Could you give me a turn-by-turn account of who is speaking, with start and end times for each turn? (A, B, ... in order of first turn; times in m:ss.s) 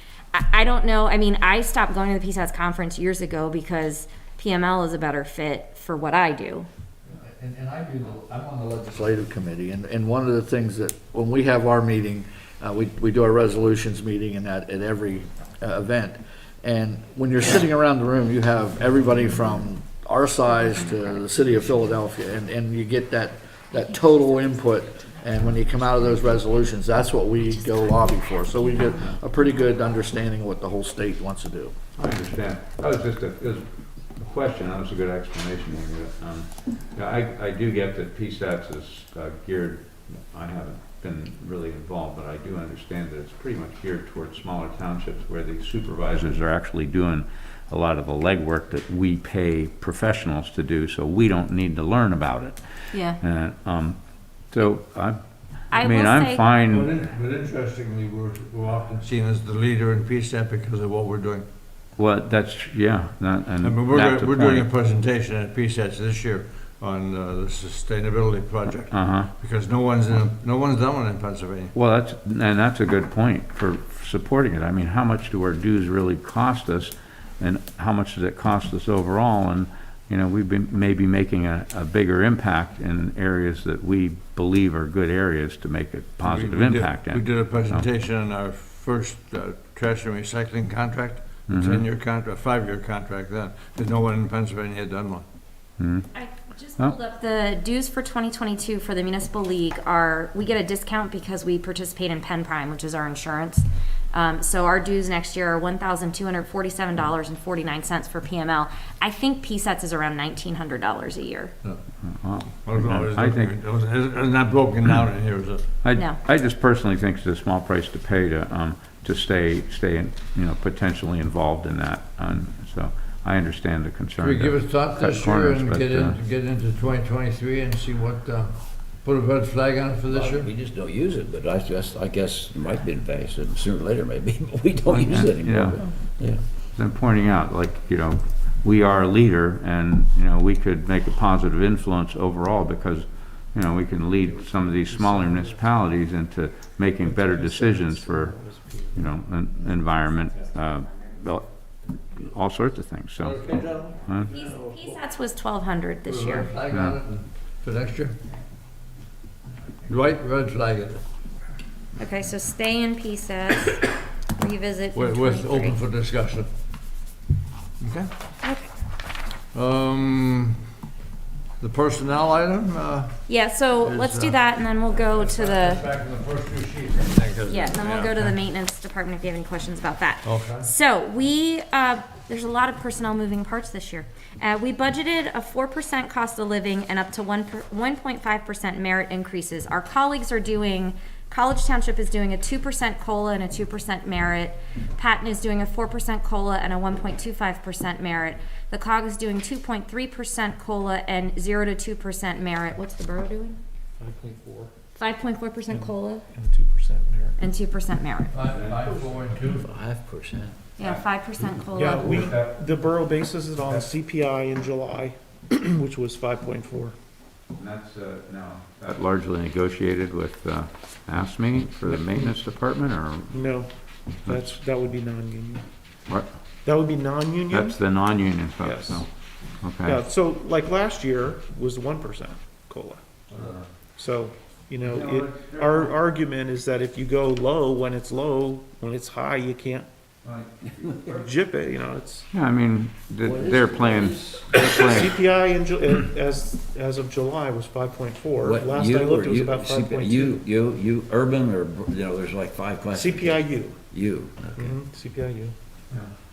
0:00.3-0:06.7 A
0:07.5-0:07.8 B
0:08.8-0:31.7 C
0:32.0-0:33.6 D
0:34.2-0:54.0 D
0:52.9-0:53.2 A
0:54.5-0:56.9 D
0:55.7-0:56.4 A
0:56.7-1:01.5 E
1:02.0-1:04.7 D
1:03.6-1:11.7 E
1:08.9-1:09.3 D
1:11.7-1:27.8 D
1:26.2-1:35.2 E
1:31.5-1:31.8 D
1:35.8-1:36.0 D
1:36.1-1:51.5 A
1:52.0-1:53.6 D
1:52.6-1:55.6 E
1:55.8-2:06.2 D
2:04.2-2:10.5 E
2:10.1-2:16.4 B
2:14.9-2:16.1 D
2:16.7-2:28.4 D
2:24.4-2:25.6 F
2:27.0-2:29.1 F
2:28.9-2:31.4 D
2:32.2-2:34.3 D
2:33.2-2:35.0 E
2:34.2-2:36.5 A
2:36.0-2:38.2 E
2:36.7-2:37.0 D
2:39.8-2:41.0 E
2:42.0-2:45.8 A
2:44.9-2:46.5 E
2:47.8-2:48.1 E
2:48.4-2:48.7 A
2:49.5-2:50.6 E
2:51.6-2:53.2 E
2:53.3-2:55.8 A
2:53.8-2:58.3 E
2:57.5-3:23.6 A
3:00.2-3:00.7 E
3:24.0-3:24.7 F
3:25.0-3:26.2 A
3:25.7-3:27.4 F
3:27.4-3:28.4 A
3:28.3-3:29.7 E
3:28.5-3:29.0 D
3:29.5-3:30.7 B
3:30.8-3:32.1 A
3:30.8-3:31.0 D
3:31.7-3:37.0 F
3:31.8-3:32.6 D
3:33.6-3:33.9 D
3:37.5-3:43.4 D
3:41.9-3:42.2 F
3:43.3-3:43.7 F
3:44.2-3:44.6 D
3:44.2-3:45.6 F
3:46.6-3:47.8 F
3:47.5-3:49.1 D
3:48.6-3:49.0 F
3:49.6-3:50.0 D
3:49.8-3:53.0 F
3:53.3-3:53.6 E
3:54.0-3:59.9 F
3:54.8-3:55.9 D
4:00.2-4:01.1 D
4:00.8-4:01.2 B
4:01.1-4:02.3 F
4:02.3-4:05.2 D
4:03.2-4:04.4 B
4:04.5-4:10.4 F
4:08.4-4:14.8 B
4:12.9-4:13.8 F
4:14.6-4:15.5 F